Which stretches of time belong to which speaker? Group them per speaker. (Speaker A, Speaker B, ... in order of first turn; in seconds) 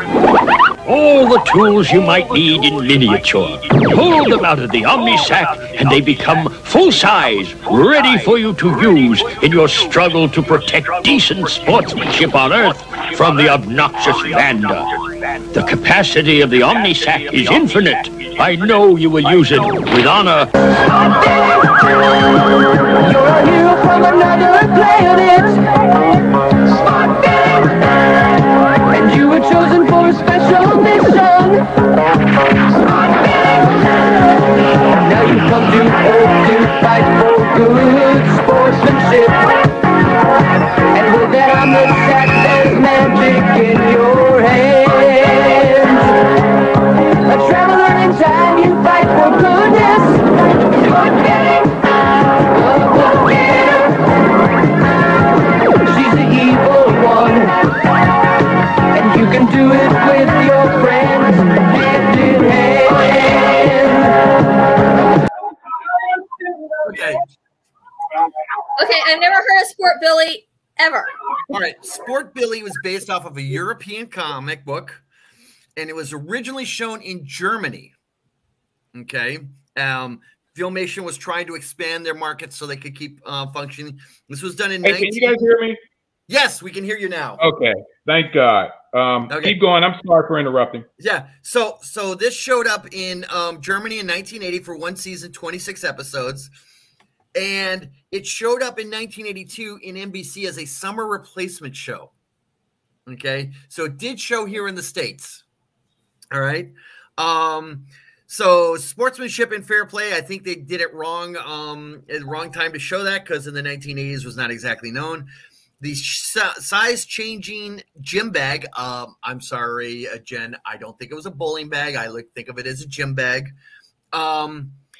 Speaker A: 0.8-14.9, 15.5-20.5
Speaker B: 23.0-26.1, 26.7-27.7, 28.9-31.6, 33.1-33.6, 35.0-39.6, 40.9-46.2, 47.2-51.7, 52.5-54.2, 55.8-57.7, 58.9-64.1
Speaker C: 66.8-67.2, 71.5-75.0, 75.8-77.9, 78.9-85.4, 86.3-87.4, 89.3-89.6, 91.0-96.5, 97.3-102.1, 103.1-105.4, 106.3-115.3, 115.8-123.5, 124.1-124.8
Speaker D: 68.8-71.1
Speaker E: 84.8-85.8, 87.4-90.8